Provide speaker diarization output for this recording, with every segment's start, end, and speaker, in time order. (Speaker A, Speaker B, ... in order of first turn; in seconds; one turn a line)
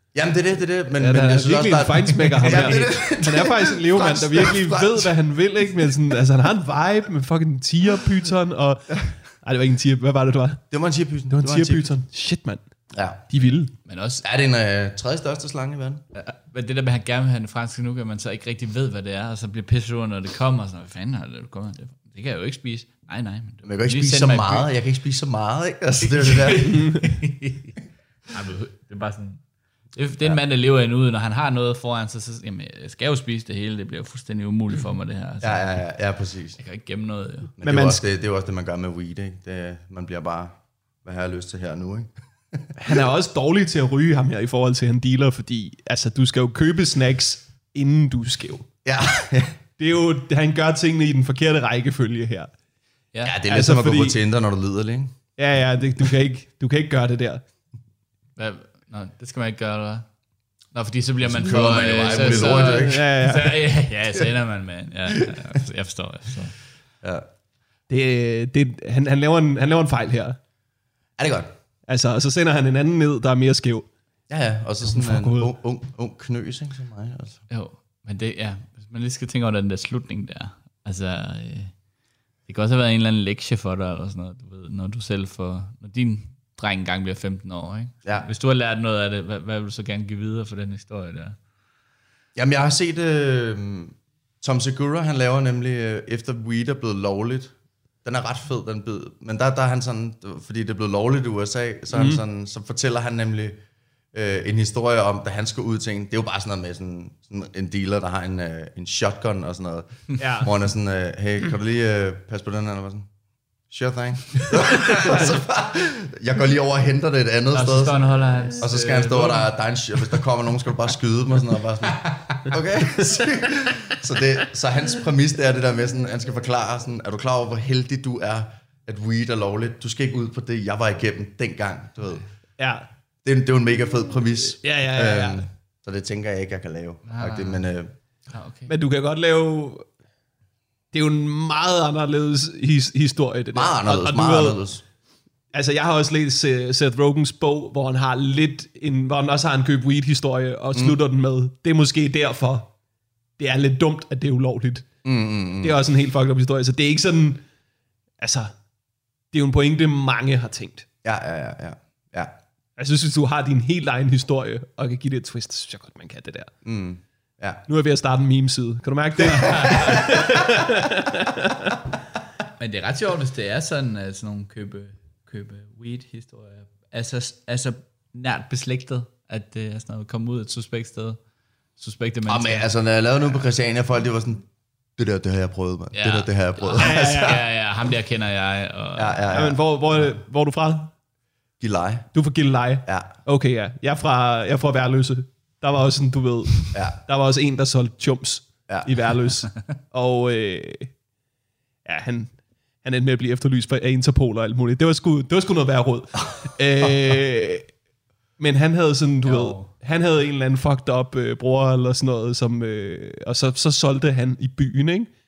Speaker A: 0.1-5.1
Speaker B: 1.0-10.6
Speaker A: 10.7-11.9
Speaker B: 11.3-12.6
Speaker A: 12.9-13.2
Speaker B: 13.3-13.7
Speaker C: 13.8-14.2
Speaker A: 14.2-16.0
Speaker C: 16.1-24.7
Speaker A: 23.6-26.8
Speaker C: 26.1-27.7
Speaker B: 26.7-27.1
Speaker C: 28.3-29.4
Speaker C: 29.9-35.8
Speaker A: 35.4-36.6
Speaker C: 36.6-37.5
Speaker A: 37.6-42.7
Speaker B: 37.6-38.0
Speaker B: 42.8-48.6
Speaker A: 48.8-49.6
Speaker B: 49.8-52.5
Speaker A: 53.2-55.2
Speaker B: 53.5-54.2
Speaker B: 55.4-57.4
Speaker C: 58.4-60.0
Speaker C: 60.7-66.5
Speaker A: 61.2-63.0
Speaker B: 62.1-63.6
Speaker B: 67.9-70.4
Speaker A: 71.2-71.5
Speaker B: 71.9-73.9
Speaker A: 74.3-77.4
Speaker B: 74.8-75.5
Speaker C: 77.5-81.7
Speaker C: 82.5-91.3
Speaker A: 92.3-97.5
Speaker A: 98.0-103.6
Speaker B: 101.9-102.2
Speaker A: 104.1-113.1
Speaker B: 110.2-110.5
Speaker A: 113.7-132.2
Speaker B: 115.0-115.3
Speaker C: 117.5-119.5
Speaker C: 122.0-122.4
Speaker B: 132.6-132.9
Speaker A: 133.2-137.9
Speaker B: 134.6-135.4
Speaker C: 137.1-137.6
Speaker C: 138.3-138.7
Speaker B: 138.7-139.8
Speaker B: 140.9-144.6
Speaker A: 143.5-144.8
Speaker B: 145.5-152.7
Speaker B: 153.4-154.9
Speaker A: 155.0-155.8
Speaker B: 155.6-157.4
Speaker B: 158.2-158.5
Speaker B: 159.3-160.8
Speaker A: 161.0-162.3
Speaker B: 162.8-166.5
Speaker A: 166.6-167.6
Speaker B: 167.7-171.8
Speaker A: 169.5-170.2
Speaker C: 172.6-181.2
Speaker C: 181.8-182.7
Speaker A: 182.3-184.4
Speaker A: 185.0-187.4
Speaker C: 185.9-189.3
Speaker B: 186.8-187.4
Speaker A: 188.9-189.6
Speaker B: 189.3-190.9
Speaker A: 191.6-192.1
Speaker B: 192.1-200.9
Speaker A: 192.8-193.1
Speaker A: 196.7-197.0
Speaker B: 201.8-207.7
Speaker B: 208.4-215.1
Speaker C: 209.2-209.7